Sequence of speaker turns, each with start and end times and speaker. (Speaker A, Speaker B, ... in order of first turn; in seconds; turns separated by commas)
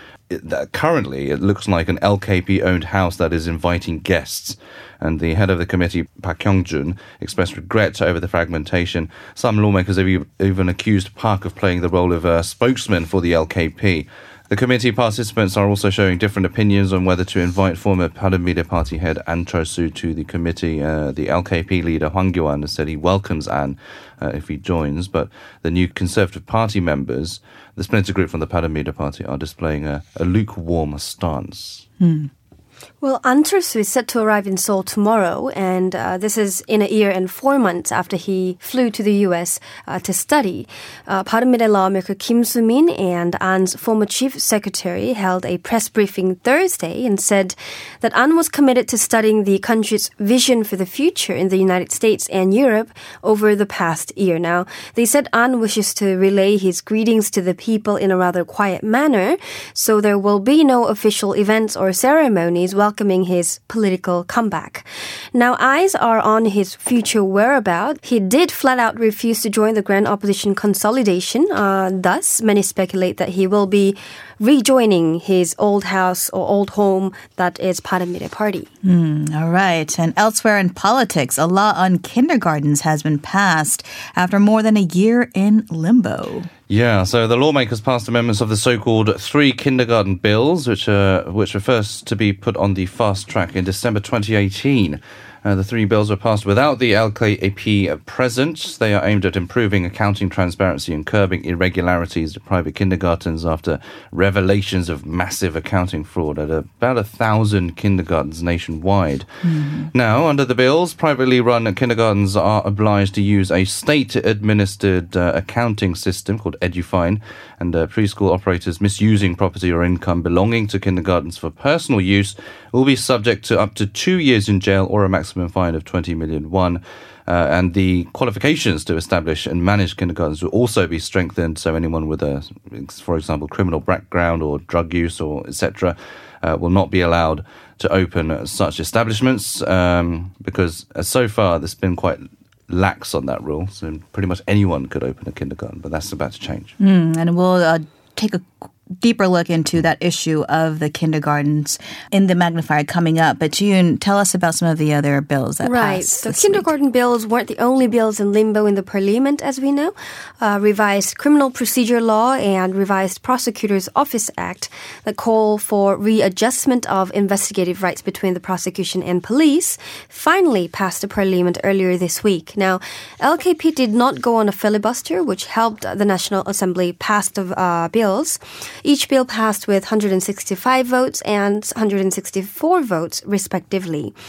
Speaker A: 0.3-31.9, Speaker B: 32.0-32.3, Speaker C: 33.0-78.7, Speaker B: 78.8-86.5, Speaker A: 86.7-109.3, Speaker B: 109.5-109.9, Speaker A: 109.9-146.7, Speaker B: 146.8-148.5, Speaker B: 149.0-156.7, Speaker C: 155.6-184.1